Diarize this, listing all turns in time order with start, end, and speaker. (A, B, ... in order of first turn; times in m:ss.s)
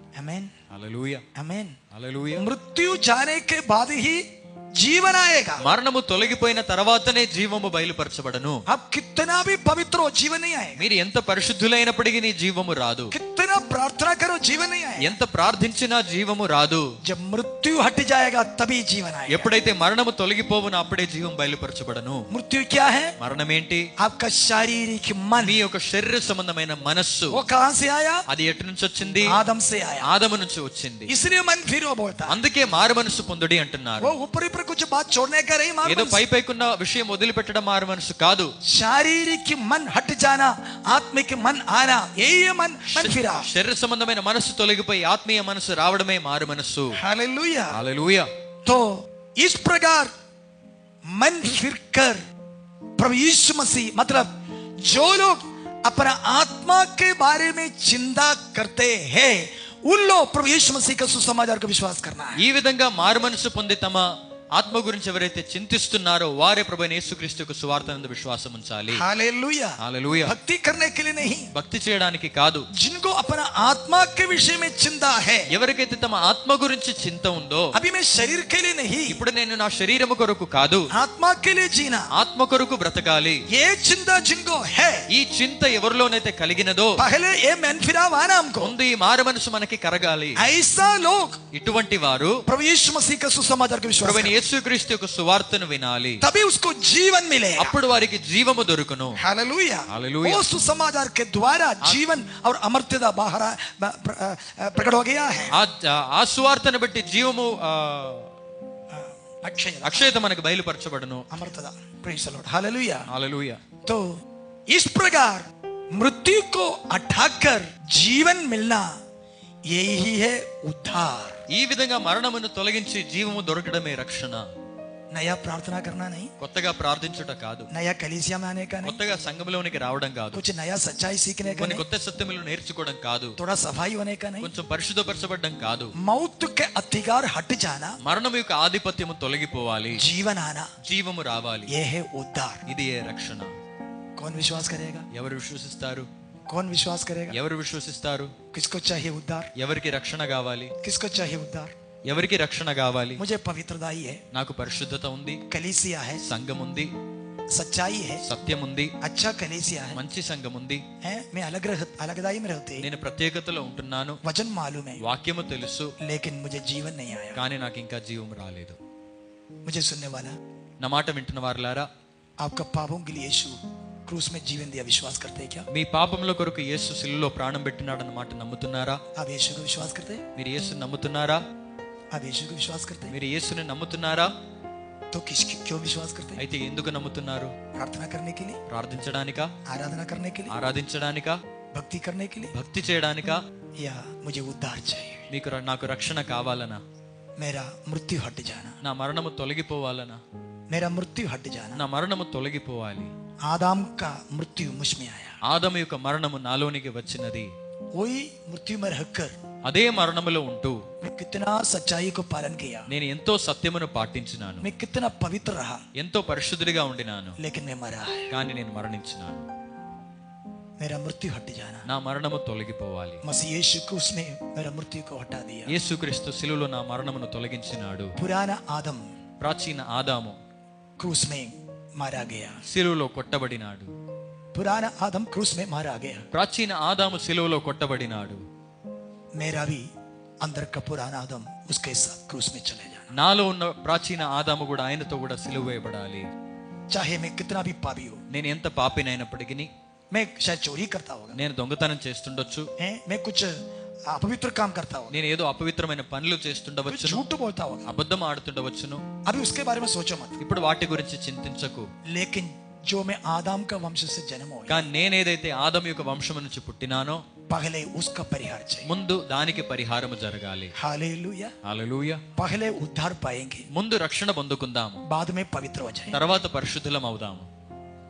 0:00.1-0:00.5 A
0:00.7-0:01.2 B
0:01.3-0:01.8 A
0:01.9-0:02.4 B
0:02.4-0:05.6 A
0:05.6-0:08.6 B
0:08.7-0:10.8 A
0:10.8-0:13.1 B
0:13.1-0:15.1 A
0:15.0-0:16.9 B
0:17.0-0:19.5 A
0:19.3-0:22.3 B
0:22.3-0:23.2 A
0:23.2-0:23.9 B
0:24.0-0:25.6 A
0:25.4-0:27.4 B
0:27.3-0:28.2 A
0:28.3-0:29.4 B
0:29.2-0:30.1 A
0:30.0-0:31.1 B
0:31.1-0:32.4 A
0:32.3-0:34.1 B
0:34.0-0:36.2 A
0:35.8-0:38.5 B
0:38.6-0:43.5 A
0:42.9-0:47.0 B
0:47.0-0:47.8 A
0:47.7-0:48.3 B
0:48.6-0:50.1 A
0:51.1-0:52.2 A
0:53.0-0:54.3 A
0:54.8-1:02.4 A
1:02.4-1:09.0 B
1:08.9-1:11.5 A
1:09.8-1:10.3 B
1:11.5-1:12.7 B
1:12.7-1:15.5 A
1:15.5-1:17.8 B
1:17.7-1:19.2 A
1:19.1-1:20.9 B
1:20.9-1:22.1 A
1:22.1-1:23.4 B
1:23.5-1:25.0 A
1:25.1-1:27.0 B
1:27.0-1:28.7 A
1:28.6-1:30.4 B
1:30.4-1:31.4 A
1:31.5-1:32.4 B
1:32.5-1:34.4 A
1:34.0-1:36.2 B
1:36.2-1:37.8 A
1:37.6-1:39.2 B
1:39.2-1:45.6 A
1:39.9-1:40.4 B
1:45.5-1:48.3 B
1:48.9-1:50.2 A
1:49.8-1:51.3 B
1:51.3-1:53.1 A
1:53.1-1:53.6 B
1:53.8-1:59.0 A
1:59.7-2:01.4 A
2:01.5-2:04.5 B
2:05.1-2:06.3 A
2:06.4-2:07.7 B
2:07.7-2:09.0 A
2:08.8-2:10.4 B
2:10.3-2:11.8 A
2:11.6-2:13.4 B
2:13.4-2:14.5 A
2:14.4-2:15.9 B
2:16.0-2:18.0 A
2:18.0-2:20.0 B
2:19.9-2:20.7 A
2:20.8-2:21.7 B
2:21.7-2:22.6 A
2:22.6-2:23.5 B
2:24.2-2:25.1 A
2:25.1-2:26.1 B
2:26.5-2:27.4 A
2:27.3-2:28.3 B
2:28.5-2:29.5 A
2:29.6-2:30.7 B
2:30.8-2:31.7 A
2:32.0-2:33.2 B
2:33.2-2:34.2 A
2:34.3-2:35.4 B
2:35.5-2:36.2 A
2:36.2-2:36.9 B
2:37.5-2:38.2 A
2:38.2-2:38.9 B
2:39.0-2:40.0 A
2:39.9-2:40.8 B
2:41.0-2:42.9 A
2:42.8-2:44.2 B
2:44.2-2:45.0 A
2:45.0-2:45.9 B
2:46.0-2:47.4 A
2:47.3-2:48.8 B
2:49.6-2:50.4 A
2:50.8-2:51.9 B
2:52.4-2:55.7 A
2:55.7-2:59.0 B
2:59.2-3:00.2 A
3:00.3-3:01.4 B
3:02.1-3:03.1 A
3:03.1-3:04.3 B
3:05.1-3:06.4 A
3:06.4-3:07.5 B
3:07.7-3:08.6 A
3:08.7-3:09.5 B
3:09.6-3:10.6 A
3:10.5-3:11.4 B
3:11.7-3:12.5 A
3:12.5-3:13.4 B
3:13.8-3:15.3 A
3:15.3-3:16.8 B
3:17.4-3:18.8 A
3:18.8-3:20.2 B
3:20.7-3:21.8 A
3:21.7-3:23.1 B
3:23.4-3:25.4 A
3:25.4-3:27.5 B
3:28.0-3:29.4 A
3:29.6-3:30.8 B
3:31.0-3:32.9 A
3:32.9-3:34.7 B
3:34.6-3:35.8 A
3:36.0-3:37.4 B
3:37.4-3:38.3 A
3:38.3-3:39.4 B
3:40.8-3:41.8 A
3:41.8-3:43.2 B
3:43.2-3:45.7 A
3:45.7-3:48.1 B
3:48.2-3:49.0 A
3:49.4-3:50.4 B
3:51.0-3:52.6 A
3:52.6-3:53.9 B
3:54.5-3:56.2 A
3:56.3-3:58.4 B
3:59.3-3:59.9 A
4:00.4-4:03.1 A
4:03.1-4:06.3 B
4:06.9-4:08.2 A
4:08.3-4:09.7 B
4:10.1-4:11.4 A
4:11.3-4:12.7 B
4:12.8-4:13.6 A
4:14.1-4:15.2 A
4:15.1-4:17.2 B
4:16.8-4:17.9 A
4:17.8-4:19.0 B
4:19.2-4:20.4 A
4:20.4-4:21.9 B
4:22.0-4:24.8 A
4:24.7-4:27.2 B
4:27.5-4:28.9 A
4:28.8-4:30.7 B
4:30.8-4:31.5 A
4:31.6-4:32.2 B
4:32.4-4:33.7 A
4:33.7-4:35.0 B
4:35.0-4:36.2 A
4:36.1-4:37.5 B